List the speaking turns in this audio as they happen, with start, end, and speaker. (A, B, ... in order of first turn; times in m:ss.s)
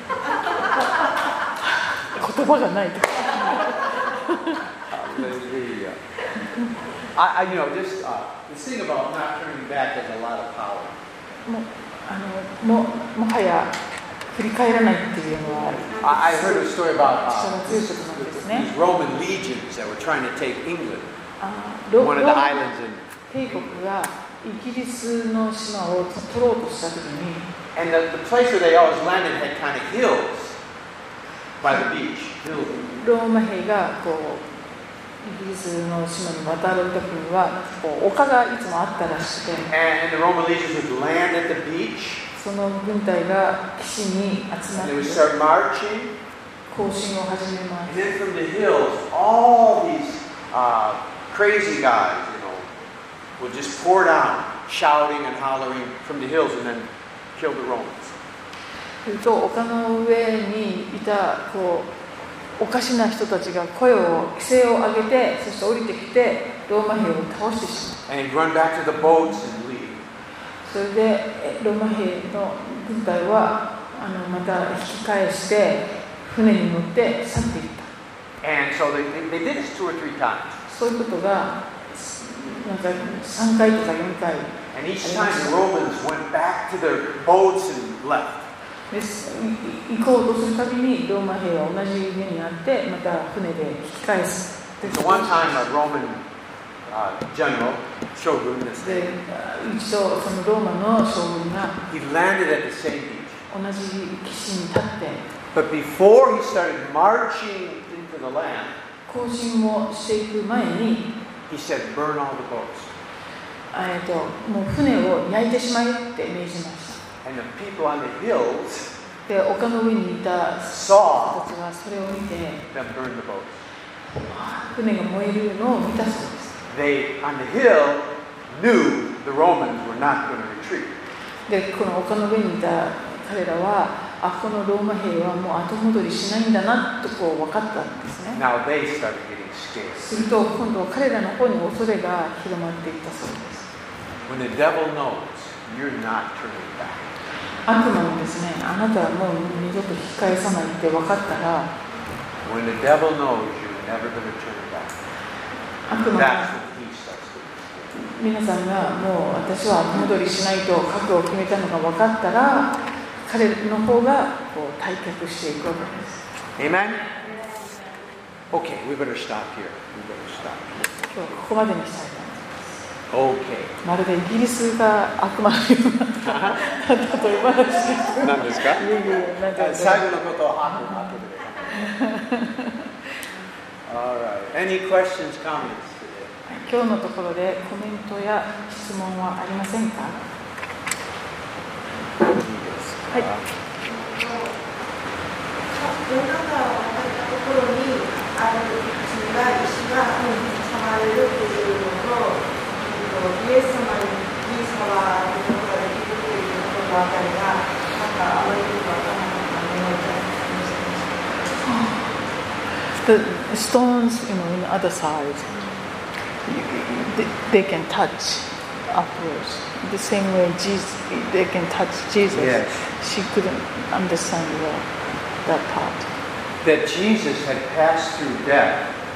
0:01.6-0:04.6 A
0:04.9-0:06.0 B
0:07.1-0:11.0 B
0:11.5-0:13.8 A
0:14.3-0:18.7 A
0:15.8-0:21.1 B
0:21.4-0:22.5 A
0:22.0-0:23.1 B
0:23.3-0:27.5 A
0:27.8-0:30.6 B
0:31.6-0:32.9 B
0:32.6-0:34.6 A
0:35.2-0:39.7 A
0:39.7-0:42.2 B
0:42.4-0:45.3 A
0:44.8-0:46.1 B
0:46.7-0:48.1 A
0:47.9-0:52.7 B
0:53.4-0:58.1 B
0:59.0-1:01.9 A
1:02.6-1:08.0 A
1:08.1-1:10.0 B
1:10.6-1:17.9 A
1:18.4-1:20.6 B
1:20.6-1:25.6 A
1:24.7-1:28.5 B
1:28.9-1:35.6 A
1:34.8-1:36.2 B
1:36.9-1:39.2 B
1:38.8-1:41.8 A
1:41.9-1:43.4 B
1:43.5-1:45.3 A
1:45.5-1:48.8 B
1:49.1-1:51.1 A
1:51.5-1:52.9 B
1:53.7-1:57.0 A
1:57.2-1:58.9 B
1:59.3-2:02.6 A
2:00.7-2:01.4 B
2:02.7-2:03.6 B
2:04.1-2:06.6 A
2:06.7-2:11.0 B
2:11.5-2:18.4 A
2:18.3-2:20.1 B
2:20.0-2:23.7 A
2:24.3-2:27.1 B
2:27.7-2:31.7 A
2:32.4-2:34.9 B
2:35.9-2:36.5 A
2:36.1-2:37.9 B
2:37.9-2:46.2 A
2:46.6-2:47.1 B
2:48.5-2:51.0 B
2:51.1-2:52.8 A
2:53.1-2:53.8 B
2:53.8-3:00.2 A
2:56.2-2:56.7 B
2:58.2-2:58.9 B
2:59.5-3:01.9 B
3:01.8-3:02.9 A
3:03.9-3:06.3 B
3:06.5-3:10.2 A
3:12.2-3:13.5 B
3:13.8-3:14.6 C
3:15.7-3:31.3 C
3:31.6-3:32.1 A
3:32.9-3:35.6 A
3:36.4-3:44.9 A
3:42.3-3:42.9 B
3:45.4-3:46.1 A
3:46.6-3:48.9 B